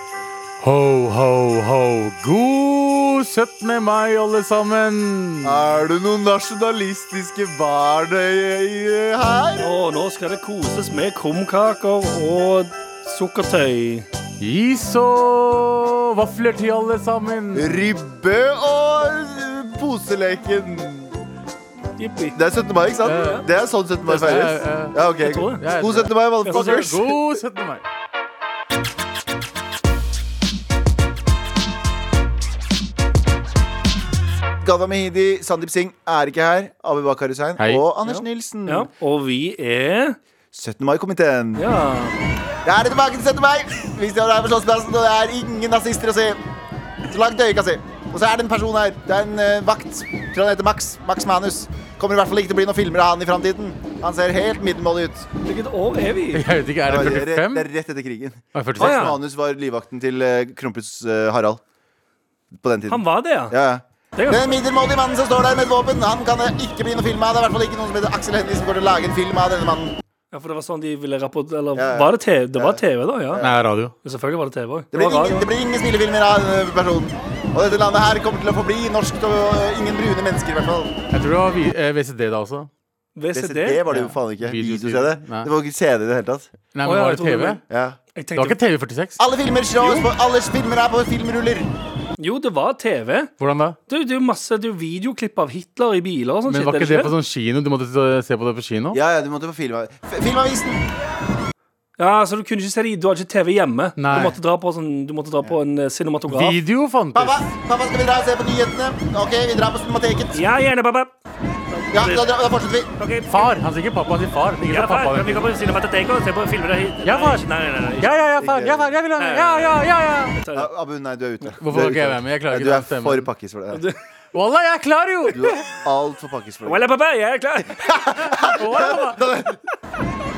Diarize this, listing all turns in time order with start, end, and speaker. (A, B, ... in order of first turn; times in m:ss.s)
0:00.6-0:05.7 A
0:05.4-0:09.7 B
0:09.6-0:14.1 C
0:14.4-0:17.8 A
0:17.5-0:21.1 B
0:22.0-0:22.4 C
0:22.3-0:27.1 B
0:23.0-0:23.4 C
0:23.0-0:23.4 A
0:24.1-0:25.0 A
0:25.2-0:25.6 C
0:25.6-0:27.8 A
0:26.4-0:27.0 C
0:34.6-0:38.9 B
0:37.6-0:37.8 A
0:38.0-0:40.2 C
0:40.5-0:41.7 B
0:41.6-0:42.2 C
0:42.6-0:46.4 B
0:47.1-0:55.3 B
0:55.4-0:56.4 C
0:56.3-0:57.7 A
0:56.8-1:01.6 B
0:58.5-0:59.2 A
0:58.8-0:59.2 C
1:02.6-1:10.0 B
1:02.9-1:03.5 C
1:04.2-1:04.6 C
1:10.3-1:13.4 C
1:11.7-1:13.5 B
1:13.4-1:13.9 A
1:14.0-1:15.5 C
1:14.9-1:20.9 B
1:21.1-1:22.7 A
1:23.2-1:24.1 C
1:23.3-1:26.5 B
1:23.9-1:25.5 A
1:26.7-1:27.6 A
1:26.8-1:27.6 C
1:27.7-1:28.0 B
1:28.1-1:28.6 C
1:28.4-1:29.2 A
1:29.2-1:31.7 B
1:29.8-1:30.1 C
1:32.2-1:33.3 C
1:33.4-1:33.8 A
1:33.9-1:37.1 C
1:36.4-1:39.0 A
1:38.9-1:40.8 B
1:42.0-1:46.6 C
1:44.0-1:44.3 A
1:46.3-1:47.4 A
1:47.1-1:50.4 B
1:50.3-1:51.1 C
1:51.7-1:52.3 C
1:51.9-1:52.9 B
1:53.0-1:53.5 C
1:53.3-1:55.5 A
1:54.6-1:59.8 C
1:57.0-1:57.4 A
1:58.0-2:00.3 A
1:58.4-1:58.9 B
2:00.3-2:00.7 C
2:00.5-2:03.8 B
2:01.6-2:03.3 A
2:03.7-2:04.0 C
2:04.3-2:05.4 A
2:05.3-2:06.9 B
2:06.6-2:07.8 C
2:07.6-2:09.6 B
2:08.3-2:09.2 A